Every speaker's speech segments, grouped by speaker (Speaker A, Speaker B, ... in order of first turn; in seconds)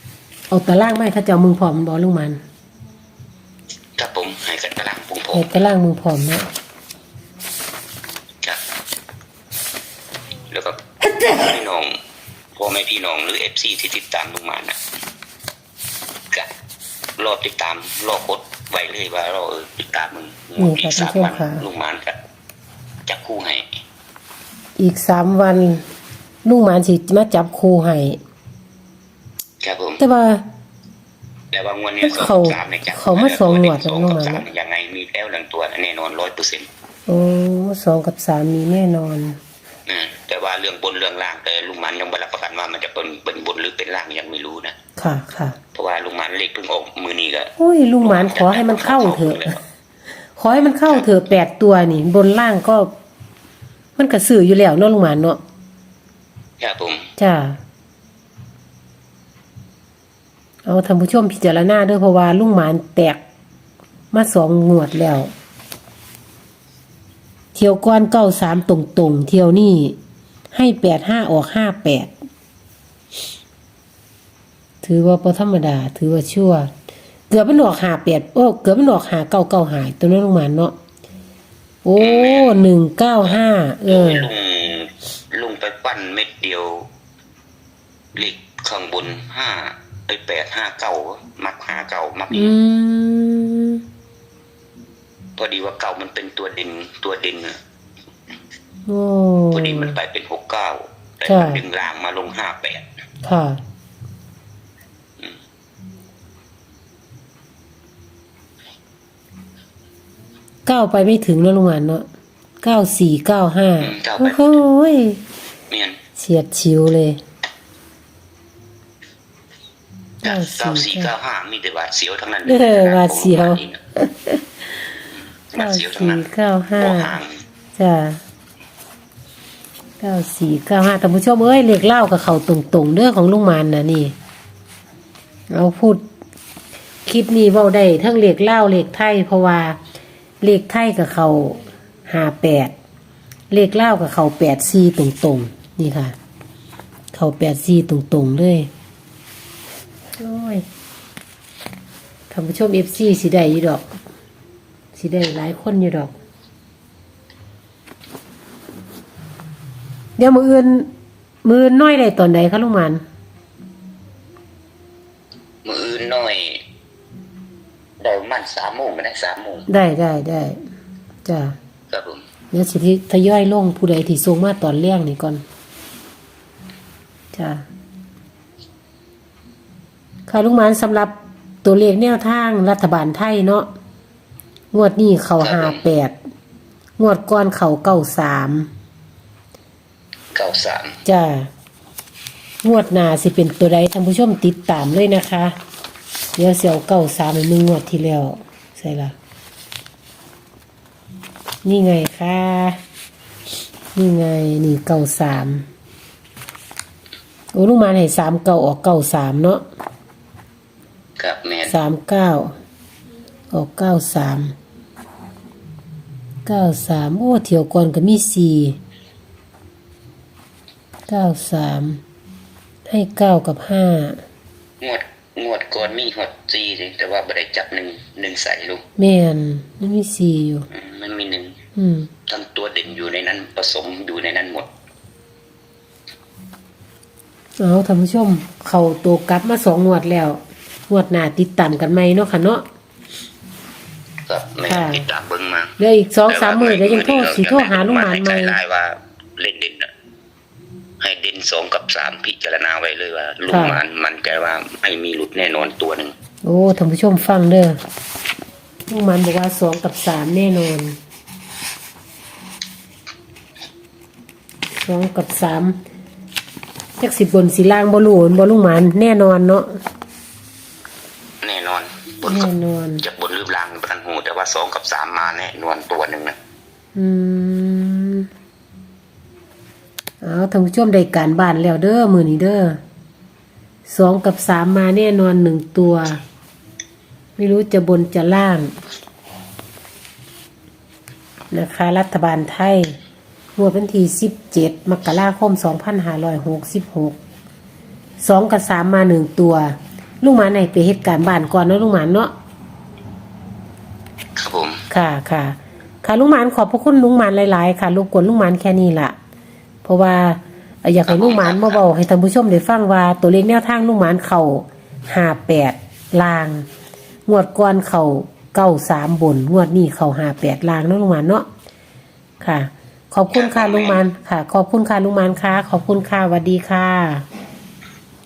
Speaker A: 0.5-2.4, 5.3-6.5, 20.6-21.6, 24.8-25.8, 26.4-28.2, 30.0-30.4, 32.0-34.4, 37.1-39.4, 45.0-45.6, 47.6-49.6, 50.4-52.9, 54.0-55.4, 57.2-57.6, 60.6-63.2, 64.1-65.3, 67.5-70.0, 70.5-72.1, 74.8-76.7, 77.3-80.7, 81.8-84.3, 92.3-93.8, 98.9-100.0, 101.2-101.6, 103.2-103.6, 110.7-112.0, 112.6-115.2, 116.2-117.2, 120.2-121.1, 122.5-124.4, 125.6-127.1, 127.8-128.2, 130.0-134.1, 135.5-136.0, 137.0-139.8, 140.4-142.7, 143.5-146.1, 147.1-148.7, 150.2-150.6, 152.3-153.9, 154.9-156.1, 160.2-160.9, 161.4-163.0, 169.7-170.6, 171.2-171.5, 172.5-175.4, 177.3-177.6, 180.3-183.7, 184.7-186.1, 187.0-188.7, 191.0-191.5, 192.6-195.5, 196.3-199.1, 201.6-202.8, 203.9-205.6, 207.5-209.6, 211.7-212.5, 213.5-214.5, 216.4-218.8, 221.1-222.0, 222.8-224.2, 229.0-230.7, 231.8-232.1, 237.6-242.7, 244.7-245.0, 245.8-248.6, 253.5-253.8, 256.4-257.8, 258.9-261.0, 264.7-265.8, 267.0-269.7, 272.2-273.0, 276.9-278.3, 280.2-282.8, 283.9-286.2, 287.4-288.7, 291.5-292.9, 293.6-297.2, 298.2-302.3, 304.9-309.1, 309.8-316.6, 317.2-321.4, 322.4-327.2
Speaker B: 4.0-5.5, 10.5-12.0, 12.6-14.8, 17.2-22.2, 23.1-23.6, 29.6-30.0, 31.5-36.7, 39.9-44.7, 45.7-47.5, 48.0-49.6, 56.6-57.1, 82.0-82.6, 83.2-86.9, 88.1-92.5, 95.4-97.6, 99.5-102.8, 113.8-114.4, 115.7-116.0, 120.2-123.8, 125.5-126.2, 126.8-127.4, 165.6-166.6, 168.0-169.7, 171.9-172.2, 185.4-185.8, 190.3-191.0, 211.2-211.7, 224.8-228.8, 230.7-231.6, 232.3-234.7, 244.3-245.7, 246.3-249.9, 251.0-256.1, 271.4-272.5, 273.0-276.4, 304.4-304.8, 311.1-311.8, 323.3-324.0